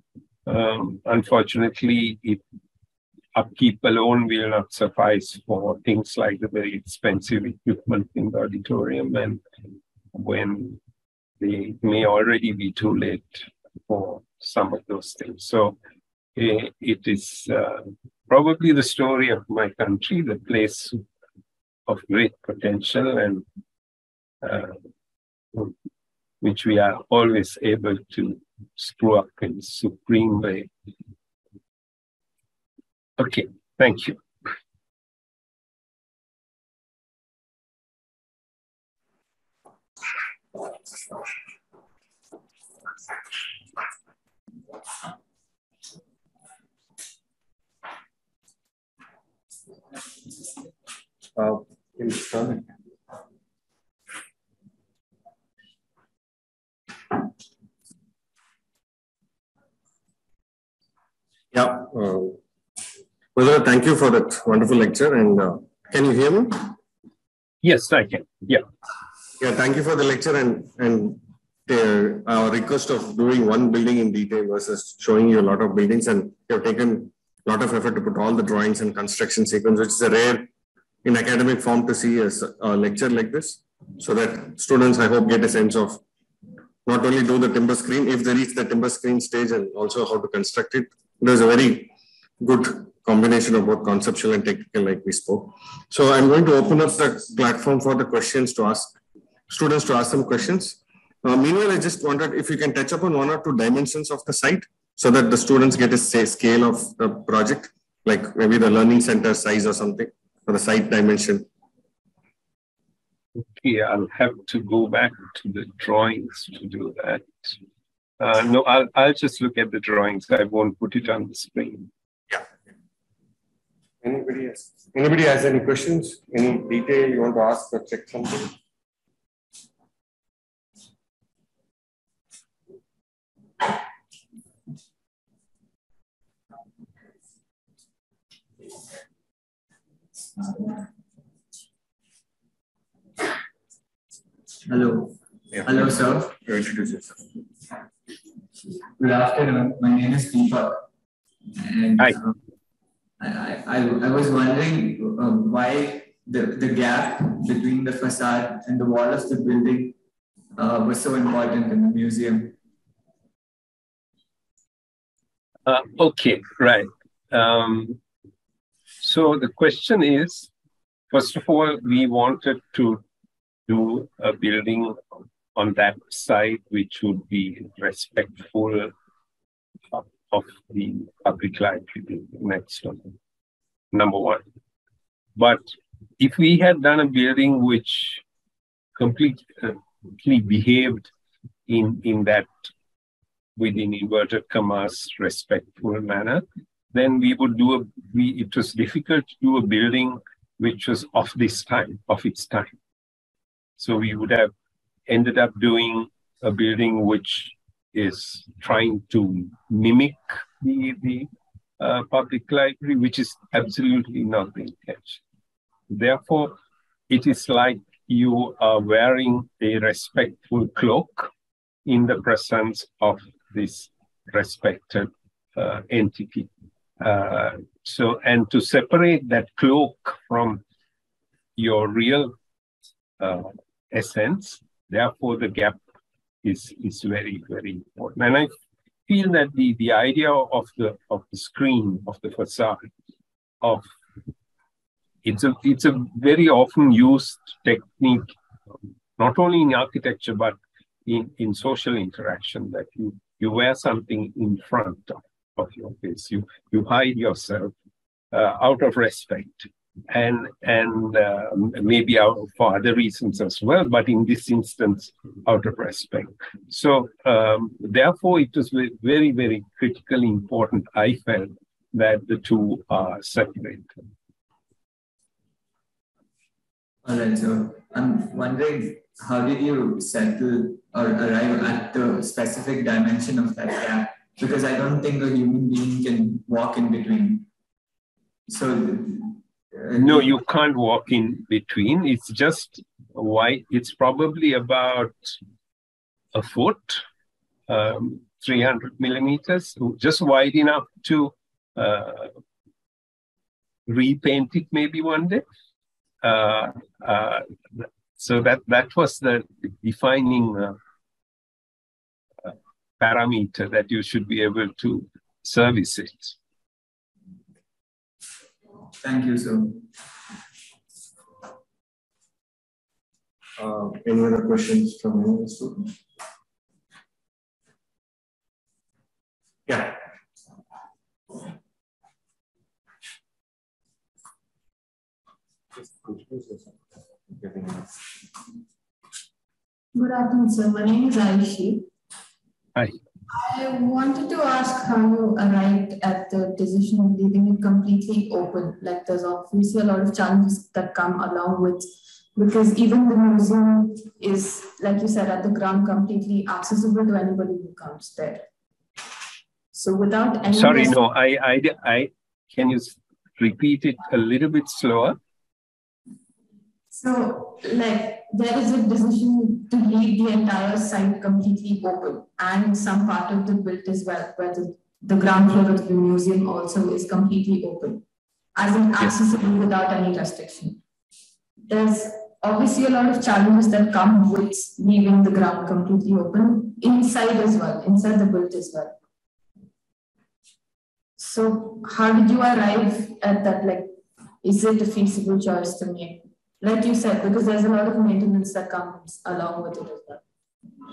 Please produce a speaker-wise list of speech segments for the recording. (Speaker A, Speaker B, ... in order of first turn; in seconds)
Speaker A: 0.5-2.4, 3.4-9.4, 10.1-10.8, 11.4-15.8, 16.4-21.0, 21.9-23.4, 24.4-24.8, 26.4-30.7, 33.2-34.2, 67.6-68.7, 113.4-117.6, 118.2-121.9, 165.7-168.0, 169.0-170.5, 171.1-173.0, 173.7-175.0, 175.6-178.9, 179.9-183.1, 183.9-184.4, 185.4-185.6, 186.2-188.2, 189.0-191.1, 191.7-192.5, 193.6-202.7, 203.8-204.5, 205.1-211.3, 211.8-215.2, 215.9-216.6, 217.1-221.3, 221.9-230.6, 231.6-232.3, 233.2-235.8, 236.4-238.6, 239.1-242.9, 245.2-248.3, 249.2-257.7, 258.3-273.9, 289.9-295.4, 296.3-297.0, 297.7-302.3, 303.9-305.4, 306.2-310.8, 312.4-316.4, 360.5-365.2
Speaker B: 51.4-52.7, 61.5-62.4, 63.4-66.7, 69.4-80.5, 81.0-86.0, 86.8-99.0, 99.5-111.5, 124.0-128.6, 145.5-145.8, 146.4-147.2, 323.6-325.9, 329.7-330.0, 336.0-336.6, 337.3-337.9
Speaker C: 144.7-146.4, 149.0-150.8, 151.6-152.4, 153.2-160.0, 160.6-162.6, 277.0-287.5, 288.5-290.3, 319.0-319.9
Speaker D: 339.9-341.9, 343.3-358.4, 359.7-361.0, 366.9-378.0, 378.6-380.8, 381.7-389.0, 391.2-393.9, 394.4-400.2